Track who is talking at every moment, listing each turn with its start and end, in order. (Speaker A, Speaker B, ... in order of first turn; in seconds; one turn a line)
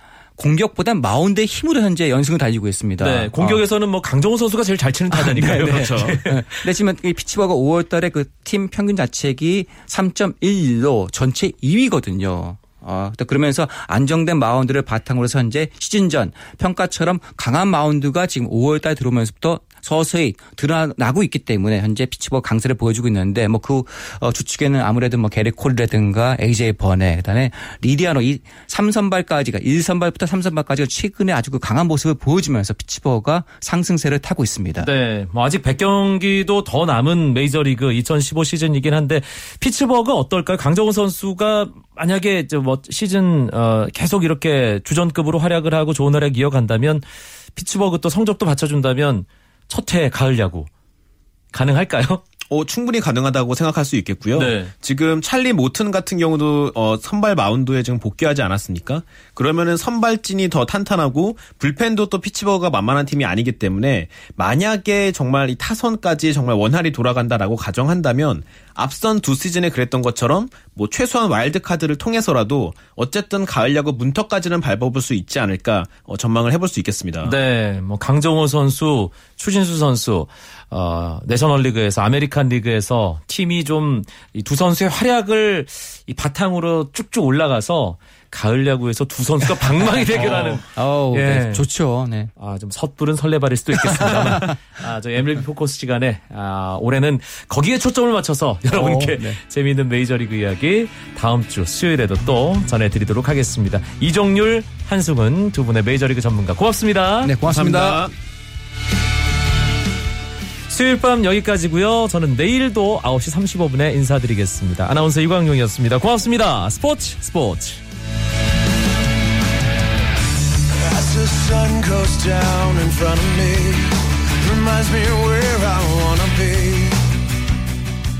Speaker A: 0.4-3.6
Speaker B: 3.0-6.7
Speaker A: 5.1-34.9
Speaker C: 5.7-6.2
Speaker B: 34.8-47.0
Speaker B: 47.6-50.7
Speaker B: 51.5-52.2
Speaker C: 52.5-77.3
Speaker B: 54.4-54.7
Speaker B: 77.2-91.6
Speaker A: 90.2-92.3
Speaker B: 92.4-107.3
Speaker A: 93.9-94.5
Speaker A: 98.7-99.4
Speaker A: 107.2-108.1
Speaker C: 107.5-108.1
Speaker B: 110.7-117.8
Speaker D: 120.7-127.2